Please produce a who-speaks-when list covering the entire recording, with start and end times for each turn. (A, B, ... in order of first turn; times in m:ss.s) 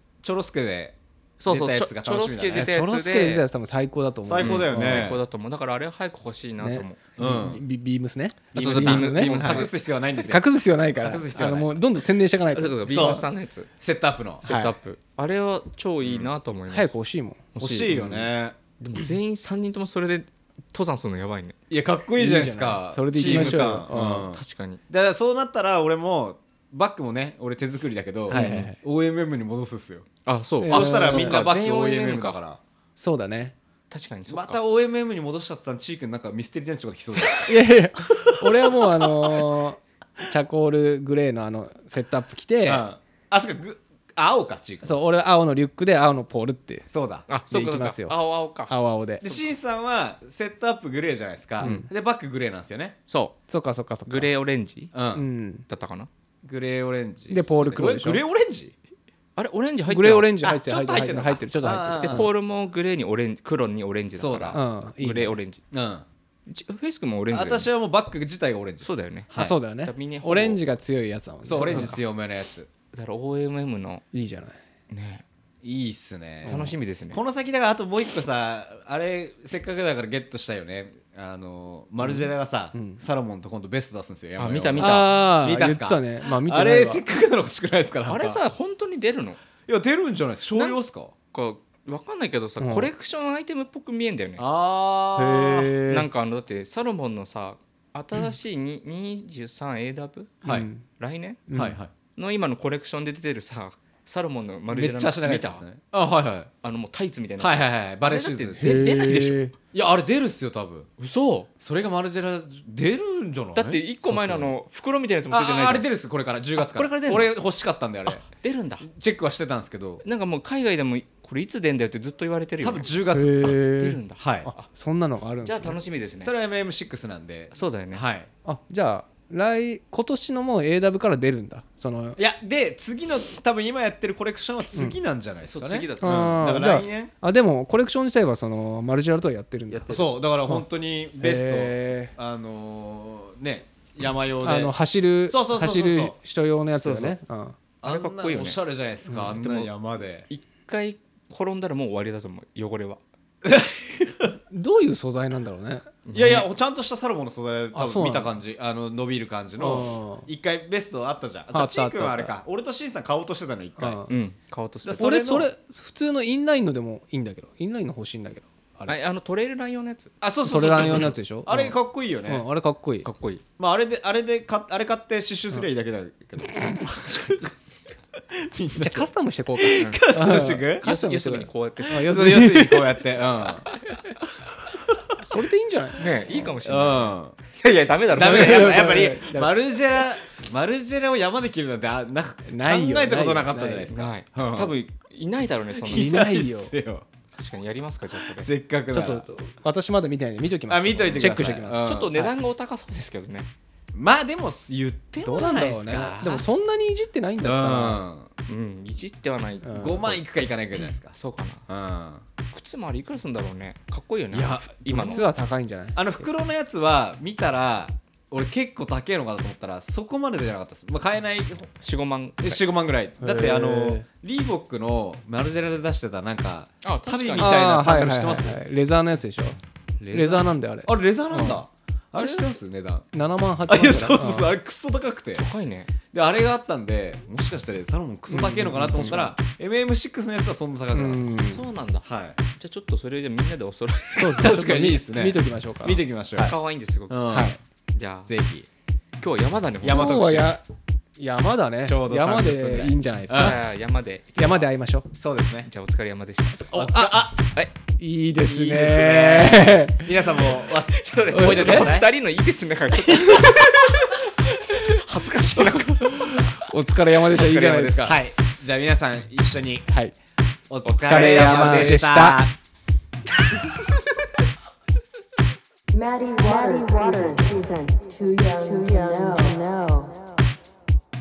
0:00.2-0:00.9 A
0:01.4-0:03.4 B
0:01.4-0:02.7 A
0:02.5-0:05.1 C
0:04.2-0:05.2 A
0:04.4-0:07.0 B
0:06.6-0:09.7 C
0:07.2-0:07.6 A
0:08.5-0:11.7 A
0:08.5-0:09.7 B
0:10.2-0:13.2 C
0:12.5-0:13.7 B
0:12.9-0:13.2 A
0:13.8-0:14.4 A
0:14.4-0:14.7 C
0:14.4-0:17.0 B
0:16.0-0:16.3 A
0:16.7-0:17.4 C
0:17.5-0:18.3 B
0:17.6-0:18.6 A
0:18.8-0:21.6 B
0:21.7-0:30.1 A
0:22.2-0:24.2 C
0:23.1-0:24.8 B
0:28.3-0:28.8 C
0:28.3-0:28.7 B
0:30.2-0:32.4 B
0:30.6-0:31.4 C
0:30.7-0:32.6 A
0:33.0-0:33.5 C
0:33.9-0:34.6 B
0:34.3-0:37.6 A
0:37.4-0:42.8 C
0:42.6-0:45.0 A
0:44.8-0:46.9 C
0:46.9-0:47.3 A
0:47.3-0:48.7 B
0:47.4-0:49.4 C
0:49.2-0:53.0 A
0:51.6-0:51.9 C
0:53.1-0:53.4 B
0:53.5-0:54.3 C
0:54.1-0:54.9 B
0:54.9-0:55.2 A
0:55.1-0:55.6 C
0:55.7-0:56.1 B
0:56.4-0:58.7 A
0:57.3-0:58.2 C
0:59.4-1:00.4 B
0:59.9-1:02.3 C
1:00.4-1:02.3 A
1:02.0-1:05.6 B
1:04.2-1:04.6 A
1:04.5-1:05.4 C
1:05.7-1:06.0 A
1:06.5-1:07.7 B
1:07.3-1:09.6 A
1:08.8-1:10.6 B
1:09.4-1:12.0 C
1:11.4-1:12.7 A
1:11.6-1:12.0 B
1:12.9-1:14.0 B
1:14.1-1:14.6 C
1:14.9-1:15.2 B
1:15.6-1:28.4 A
1:16.4-1:17.2 B
1:16.4-1:16.8 C
1:22.0-1:23.0 C
1:24.4-1:25.2 B
1:24.8-1:27.0 C
1:28.1-1:29.4 B
1:29.7-1:31.1 A
1:31.3-1:34.4 B
1:32.6-1:32.9 C
1:34.4-1:35.8 A
1:35.2-1:36.1 C
1:35.9-1:41.4 B
1:40.4-1:40.7 A
1:40.4-1:40.8 C
1:41.5-1:41.8 C
1:41.5-1:41.9 A
1:42.2-1:45.6 B
1:44.7-1:46.5 A
1:46.6-1:49.5 B
1:47.4-1:48.9 A
1:48.6-1:49.5 C
1:49.7-1:50.9 A
1:51.0-1:51.5 B
1:51.6-1:54.5 A
1:53.5-1:55.8 B
1:55.3-1:58.2 A
1:56.6-1:57.3 B
1:58.0-1:58.9 B
1:58.8-2:00.0 A
2:00.0-2:02.9 B
2:02.6-2:04.5 A
2:03.1-2:05.8 C
2:03.7-2:04.7 B
2:05.4-2:06.3 B
2:06.2-2:08.3 A
2:07.5-2:08.0 B
2:08.4-2:12.2 C
2:12.2-2:17.1 A
2:15.4-2:16.3 B
2:16.0-2:20.6 C
2:19.7-2:20.1 B
2:19.9-2:24.7 A
2:21.2-2:22.1 C
2:24.4-2:27.5 C
2:25.3-2:26.1 A
2:26.8-2:27.2 B
2:27.8-2:30.3 A
2:27.8-2:28.6 B
2:29.1-2:29.4 C
2:29.4-2:29.7 B
2:30.3-2:33.0 B
2:33.4-2:34.3 A
2:34.5-2:36.4 C
2:36.0-2:36.4 B
2:36.1-2:44.0 A
2:37.7-2:38.3 C
2:39.6-2:40.3 C
2:41.5-2:42.3 C
2:43.8-2:44.1 C
2:44.1-2:45.1 B
2:44.8-2:45.5 A
2:45.0-2:49.0 C
2:48.9-2:51.1 B
2:50.2-2:52.5 A
2:50.4-2:51.8 C
2:52.3-2:53.1 C
2:53.0-2:53.4 B
2:53.6-2:57.5 A
2:56.6-2:57.2 C
2:58.4-3:00.9 A
2:58.8-3:03.0 C
2:59.8-3:00.0 B
3:00.8-3:02.2 B
3:02.0-3:03.7 A
3:03.7-3:04.0 B
3:05.2-3:06.0 C
3:06.0-3:09.1 B
3:06.6-3:07.3 A
3:08.1-3:14.7 A
3:08.2-3:09.5 C
3:12.5-3:13.9 C
3:13.9-3:16.2 B
3:15.8-3:17.0 A
3:15.9-3:16.7 C
3:17.3-3:18.5 B
3:18.4-3:19.2 A
3:18.9-3:22.0 C
3:20.7-3:22.3 A
3:21.2-3:23.5 B
3:23.9-3:26.4 A
3:25.2-3:28.0 C
3:27.4-3:28.3 A
3:28.5-3:29.9 B
3:29.6-3:30.2 C
3:29.8-3:31.1 A
3:31.1-3:31.6 B
3:31.7-3:32.2 A
3:32.5-3:35.3 B
3:34.3-3:35.3 A
3:34.9-3:36.2 C
3:35.9-3:41.7 A
3:41.8-3:42.6 B
3:42.4-3:48.6 A
3:43.2-3:44.0 C
3:46.8-3:47.6 B
3:47.4-3:49.6 C
3:50.0-3:53.0 A
3:50.1-3:51.6 C
3:52.1-3:52.5 B
3:53.1-3:54.5 C
3:53.7-3:55.5 A
3:55.4-3:55.9 B
3:56.1-4:01.4 A
3:58.3-3:59.3 C
3:59.0-3:59.3 B
4:00.9-4:01.6 C
4:01.4-4:04.5 B
4:02.0-4:02.4 A
4:04.1-4:06.0 C
4:04.4-4:06.5 A
4:06.4-4:07.2 B
4:07.1-4:07.6 A
4:07.3-4:07.6 C
4:07.9-4:08.3 B
4:08.2-4:08.7 A
4:09.2-4:10.4 B
4:09.8-4:10.5 A
4:09.9-4:10.6 C
4:11.2-4:13.6 C
4:11.8-4:13.6 A
4:13.3-4:14.7 B
4:14.4-4:15.1 C
4:15.1-4:15.7 A
4:15.6-4:16.7 B
4:16.7-4:17.5 A
4:16.7-4:17.3 C
4:18.0-4:20.1 C
4:18.5-4:22.1 A
4:20.4-4:26.6 B
4:21.3-4:21.9 C
4:23.2-4:23.5 C
4:25.8-4:28.2 C
4:27.2-4:28.6 B
4:28.0-4:29.9 A
4:29.9-4:30.1 C
4:30.7-4:32.5 A
4:30.8-4:32.1 B
4:31.0-4:32.4 C
4:35.9-4:40.4 D